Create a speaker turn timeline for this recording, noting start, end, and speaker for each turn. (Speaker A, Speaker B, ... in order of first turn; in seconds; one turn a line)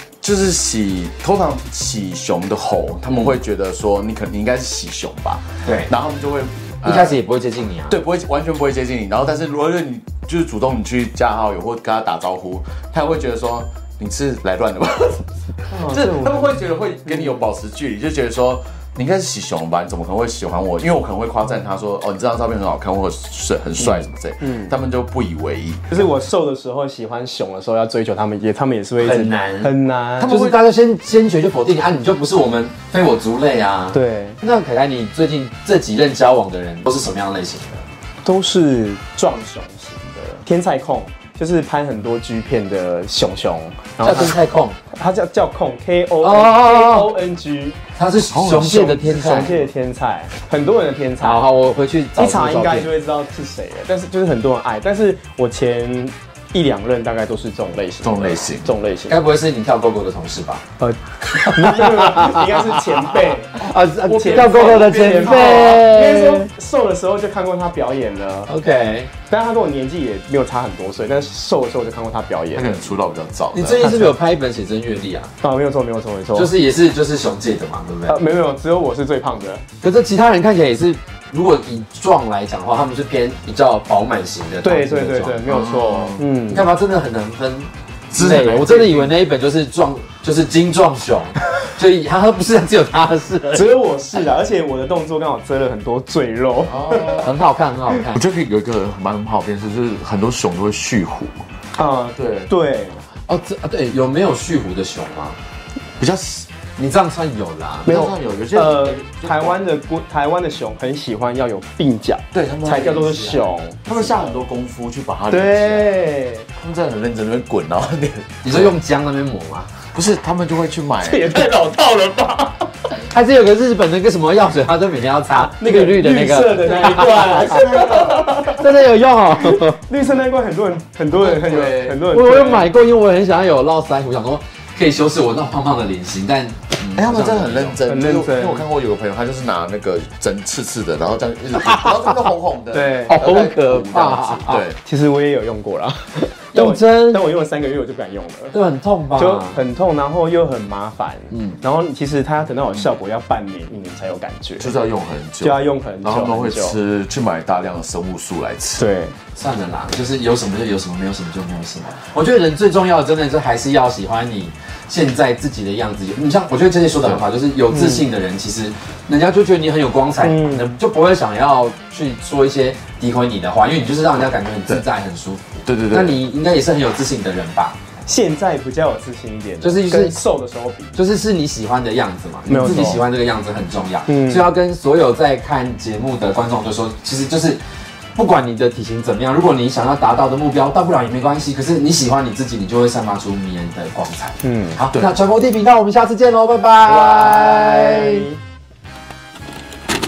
Speaker A: 0.2-7.2
Speaker B: 5.6-5.9
Speaker B: 6.8-8.0
Speaker A: 7.9-26.0
Speaker C: 15.7-16.6
Speaker C: 24.4-24.7
Speaker C: 25.9-30.4
Speaker B: 29.0-37.8
Speaker A: 30.2-30.6
Speaker C: 33.9-34.4
Speaker C: 38.2-44.4
Speaker B: 44.0-44.8
Speaker C: 44.9-47.8
Speaker B: 46.2-47.1
Speaker B: 48.0-49.6
Speaker A: 48.3-49.4
Speaker C: 48.6-51.4
Speaker B: 51.2-52.9
Speaker C: 52.2-59.2
Speaker A: 58.0-58.7
Speaker B: 59.1-60.6
Speaker C: 60.8-68.5
Speaker B: 61.3-66.5
Speaker A: 64.2-65.8
Speaker B: 68.5-69.1
Speaker C: 69.3-72.9
Speaker A: 72.5-73.9
Speaker B: 73.5-75.3
Speaker C: 73.8-74.2
Speaker C: 75.4-76.5
Speaker B: 76.3-78.2
Speaker C: 78.1-79.6
Speaker B: 79.8-85.4
Speaker C: 84.6-86.7
Speaker A: 85.5-86.2
Speaker B: 86.5-93.7
Speaker A: 88.1-89.2
Speaker C: 93.5-97.3
Speaker A: 96.7-97.3
Speaker B: 97.2-98.2
Speaker A: 98.1-101.4
Speaker C: 101.8-103.0
Speaker A: 102.2-102.5
Speaker B: 103.3-105.4
Speaker A: 106.0-106.5
Speaker B: 106.8-107.9
Speaker C: 107.8-114.4
Speaker A: 107.9-109.6
Speaker A: 112.3-115.9
Speaker C: 115.3-116.5
Speaker A: 116.6-118.8
Speaker B: 118.4-119.7
Speaker A: 119.9-121.5
Speaker C: 121.0-122.7
Speaker B: 123.0-129.8
Speaker C: 125.3-128.7
Speaker A: 126.7-128.3
Speaker C: 129.4-132.7
Speaker A: 131.1-132.0
Speaker B: 132.1-137.8
Speaker A: 137.0-144.8
Speaker C: 137.9-138.7
Speaker B: 141.7-142.3
Speaker C: 142.7-143.3
Speaker B: 143.1-144.7
Speaker C: 144.8-148.6
Speaker B: 146.5-147.2
Speaker B: 148.5-149.6
Speaker C: 149.2-154.7
Speaker A: 154.6-158.8
Speaker C: 155.4-156.8
Speaker C: 158.8-159.2
Speaker B: 159.3-177.8
Speaker C: 167.7-168.1
Speaker C: 170.2-170.8
Speaker A: 175.7-176.2
Speaker C: 178.1-181.0
Speaker B: 179.6-180.2
Speaker B: 180.9-187.6
Speaker C: 182.4-183.0
Speaker C: 184.1-184.5
Speaker B: 188.2-198.3
Speaker C: 194.4-194.8
Speaker C: 196.8-198.4